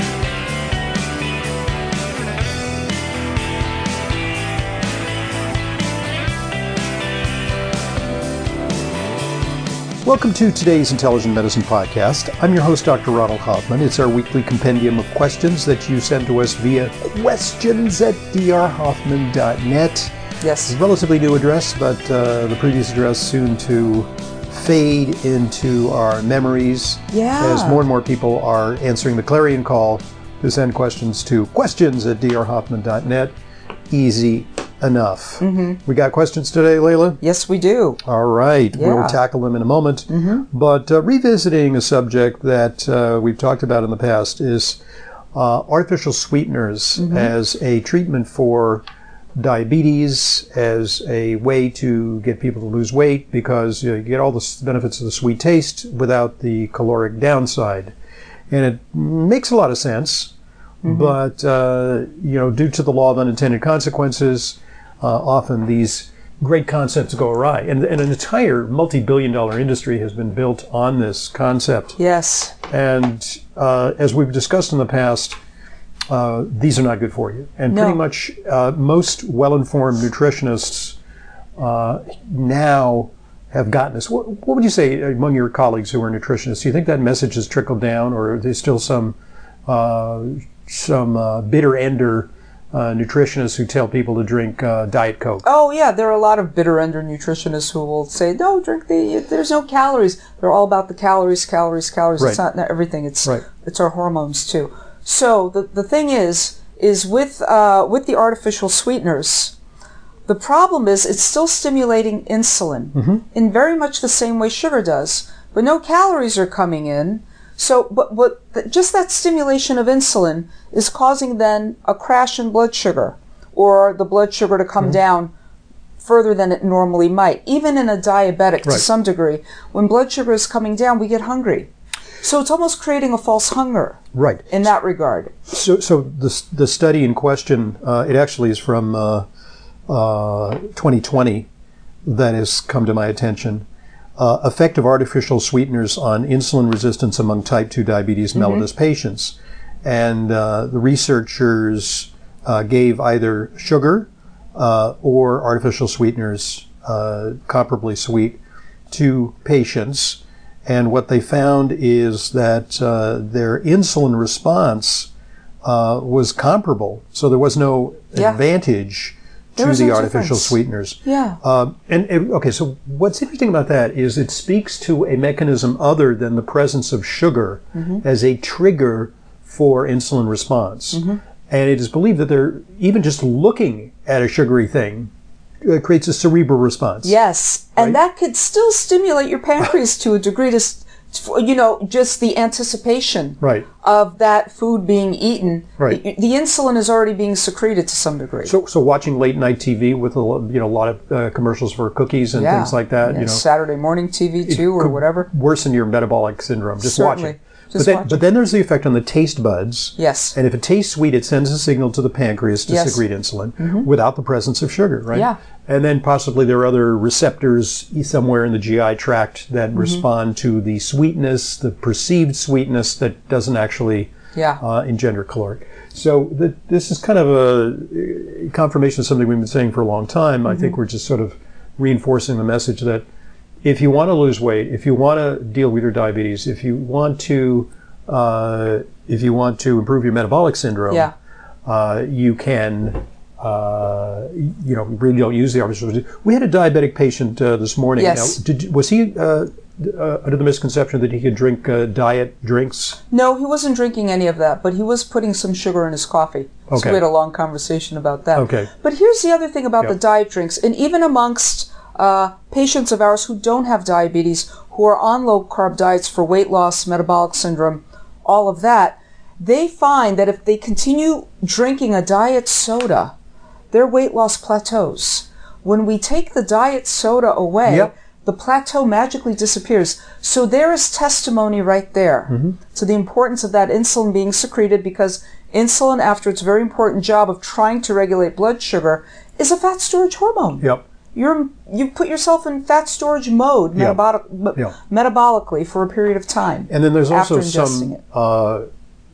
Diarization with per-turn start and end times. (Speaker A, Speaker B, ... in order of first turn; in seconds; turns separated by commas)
Speaker A: 10.0-20.1, Speaker B: 20.4-20.7, Speaker A: 20.6-33.3, Speaker B: 27.1-27.8, Speaker A: 33.9-37.2, Speaker B: 35.4-35.8, Speaker B: 37.2-38.0, Speaker A: 38.0-44.8, Speaker B: 38.8-39.2, Speaker A: 45.3-48.8, Speaker B: 47.0-47.3, Speaker A: 49.3-57.9, Speaker A: 58.5-60.3, Speaker B: 60.8-61.1, Speaker A: 60.8-72.0, Speaker B: 72.0-72.5, Speaker A: 72.7-75.4, Speaker A: 76.1-81.0, Speaker B: 77.7-78.0, Speaker A: 81.6-89.2, Speaker A: 89.7-95.4, Speaker B: 95.4-109.5, Speaker B: 110.3-125.3, Speaker A: 112.9-113.2, Speaker B: 126.0-131.7, Speaker B: 132.2-134.0, Speaker A: 134.1-134.5, Speaker B: 134.5-135.3, Speaker A: 135.5-139.2, Speaker A: 139.9-141.5, Speaker A: 142.0-143.6, Speaker A: 144.2-158.4, Speaker B: 148.4-148.6, Speaker A: 158.9-165.1, Speaker A: 165.6-185.1, Speaker B: 168.1-168.4, Speaker B: 169.6-171.4, Speaker B: 177.8-178.0, Speaker B: 180.9-181.2, Speaker A: 185.6-187.1, Speaker B: 187.0-198.5, Speaker A: 193.4-193.7, Speaker A: 198.4-203.4, Speaker B: 202.3-205.3, Speaker A: 204.4-233.0, Speaker B: 206.8-208.2, Speaker B: 210.0-210.3, Speaker B: 212.7-213.0, Speaker B: 213.6-213.9, Speaker B: 219.7-220.0, Speaker B: 224.3-224.6, Speaker A: 233.6-241.1, Speaker A: 241.7-253.0, Speaker B: 248.0-248.4, Speaker B: 253.1-273.1, Speaker A: 256.7-257.0, Speaker A: 258.3-258.7, Speaker B: 273.7-298.0, Speaker A: 277.6-277.9, Speaker A: 282.3-282.6, Speaker A: 296.7-298.6